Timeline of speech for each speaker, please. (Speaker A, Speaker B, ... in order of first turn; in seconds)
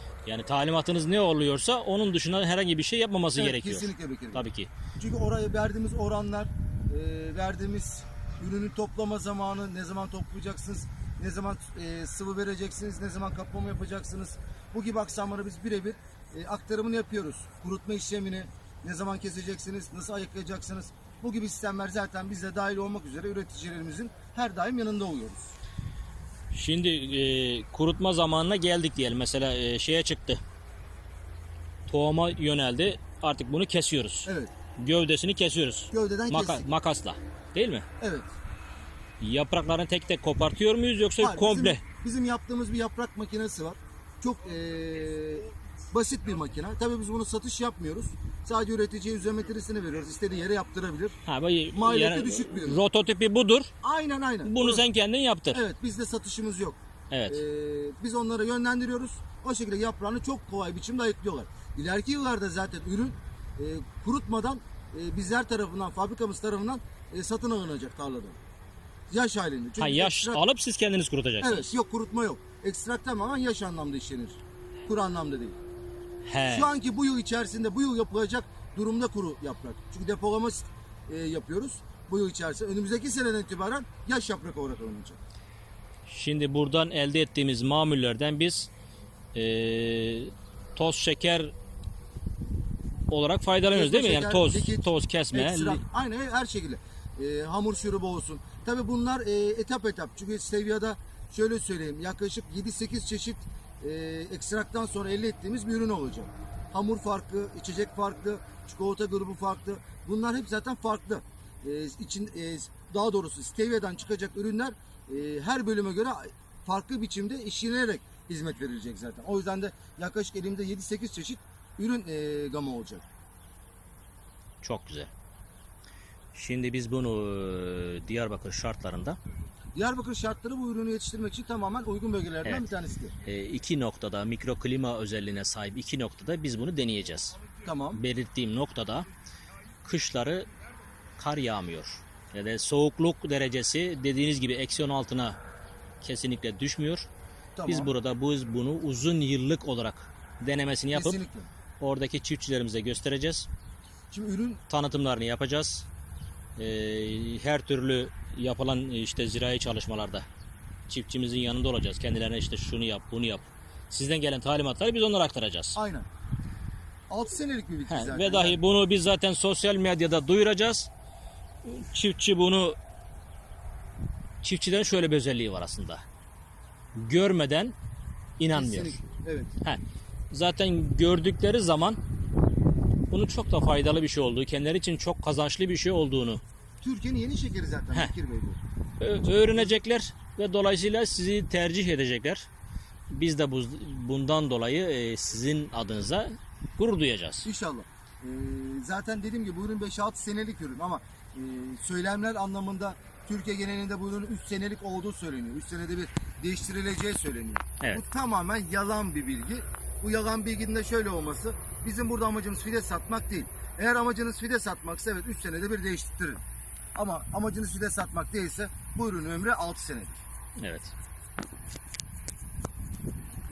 Speaker A: 0.2-4.7, 26.5-30.4, 31.9-37.9, 39.2-41.8, 51.2-53.7, 54.4-55.6, 57.1-57.4, 69.8-71.7, 76.2-76.7, 86.1-88.7, 89.3-91.5, 93.1-95.8, 124.6-125.1, 126.3-129.2, 133.2-137.4, 137.9-139.1, 139.8-140.5, 141.2-145.4, 146.0-147.1, 147.7-151.2, 151.8-153.5, 154.7-155.9, 156.6-160.2, 160.9-165.8, 167.9-170.9, 171.6-172.8, 174.4-176.0, 176.9-177.7, 178.4-179.0, 179.6-182.0, 183.1-186.4, 189.0-192.5, 193.1-197.5, 220.6-220.9
Speaker B: 3.3-4.4, 5.0-25.5, 34.2-34.5, 35.9-36.7, 38.0-38.3, 41.2-51.2, 51.7-52.8, 53.8-54.8, 55.5-56.8, 57.3-68.4, 69.1-70.4, 71.4-75.6, 76.4-85.2, 93.7-123.0, 129.7-133.1, 137.6-138.0, 147.6-147.9, 150.9-151.5, 154.1-154.6, 165.8-166.1, 167.1-168.6, 178.5-179.5, 186.8-188.6, 197.4-216.4, 216.9-220.2